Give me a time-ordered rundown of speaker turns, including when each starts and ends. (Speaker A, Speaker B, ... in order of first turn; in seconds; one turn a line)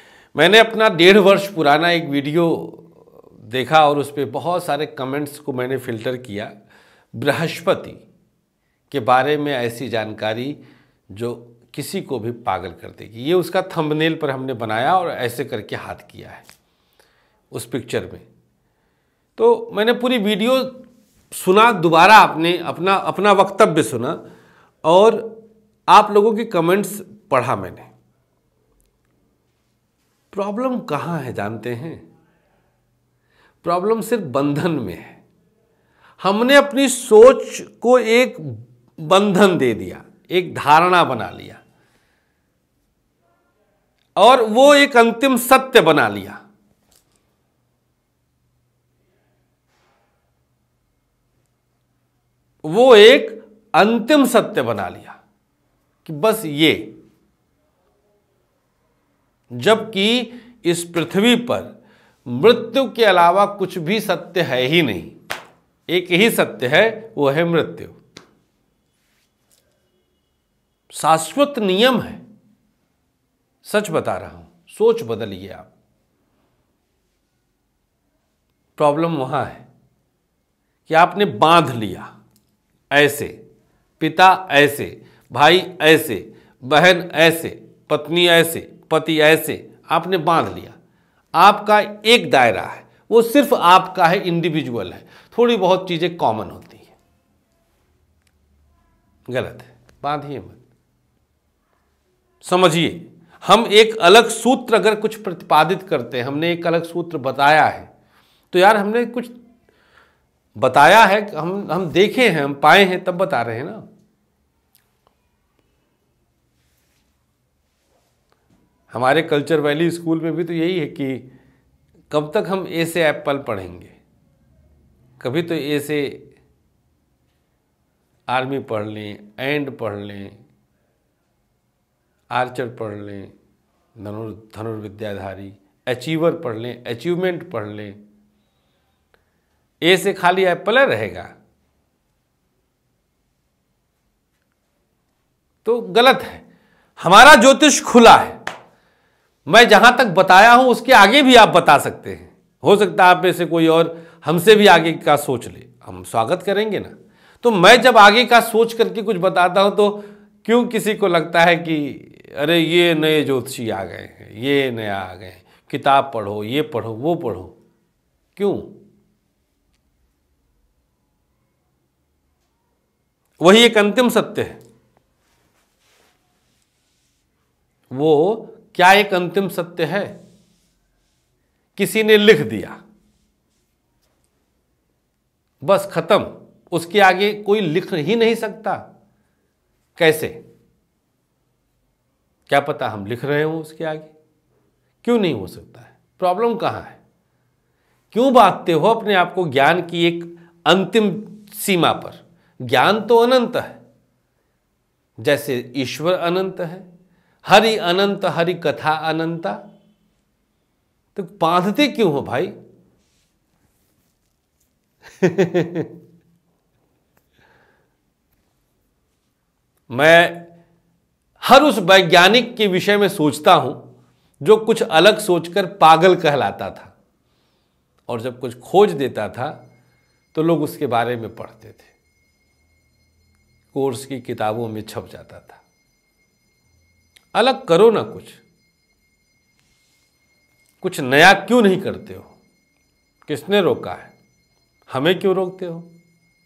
Speaker A: 0.3-6.5
Speaker A: 7.1-8.0
Speaker A: 8.9-10.6
Speaker A: 11.1-16.4
Speaker A: 17.5-18.2
Speaker A: 19.4-24.2
Speaker A: 24.8-27.9
Speaker A: 30.3-32.0
Speaker A: 33.6-35.2
Speaker A: 36.2-41.6
Speaker A: 44.2-46.4
Speaker A: 52.6-55.2
Speaker A: 56.0-57.0
Speaker A: 59.5-65.1
Speaker A: 65.9-68.0
Speaker A: 70.9-72.2
Speaker A: 73.6-75.7
Speaker A: 78.8-79.7
Speaker A: 80.9-82.1
Speaker A: 82.9-83.4
Speaker A: 84.0-90.8
Speaker A: 91.3-96.9
Speaker A: 99.3-100.6
Speaker A: 102.4-107.9
Speaker A: 108.5-109.3
Speaker A: 110.6-113.8
Speaker A: 118.9-121.3
Speaker A: 122.1-123.9
Speaker A: 125.2-126.3
Speaker A: 128.3-130.4
Speaker A: 132.3-133.3
Speaker A: 133.9-138.0
Speaker A: 139.8-141.3
Speaker A: 145.6-146.4
Speaker A: 147.0-148.4
Speaker A: 149.5-167.6
Speaker A: 168.3-168.8
Speaker A: 173.4-174.6
Speaker A: 177.9-180.2
Speaker A: 181.8-182.8
Speaker A: 185.6-188.8
Speaker A: 190.0-190.4
Speaker A: 192.5-194.1
Speaker A: 195.0-197.0
Speaker A: 198.1-203.8
Speaker A: 205.2-206.8
Speaker A: 207.4-209.6
Speaker A: 211.1-212.5
Speaker A: 215.2-215.9
Speaker A: 219.9-220.5
Speaker A: 221.4-223.8
Speaker A: 224.4-226.9
Speaker A: 228.1-229.6
Speaker A: 230.3-231.9
Speaker A: 233.7-235.6
Speaker A: 237.3-238.4
Speaker A: 240.8-242.3
Speaker A: 243.3-244.1
Speaker A: 244.9-245.9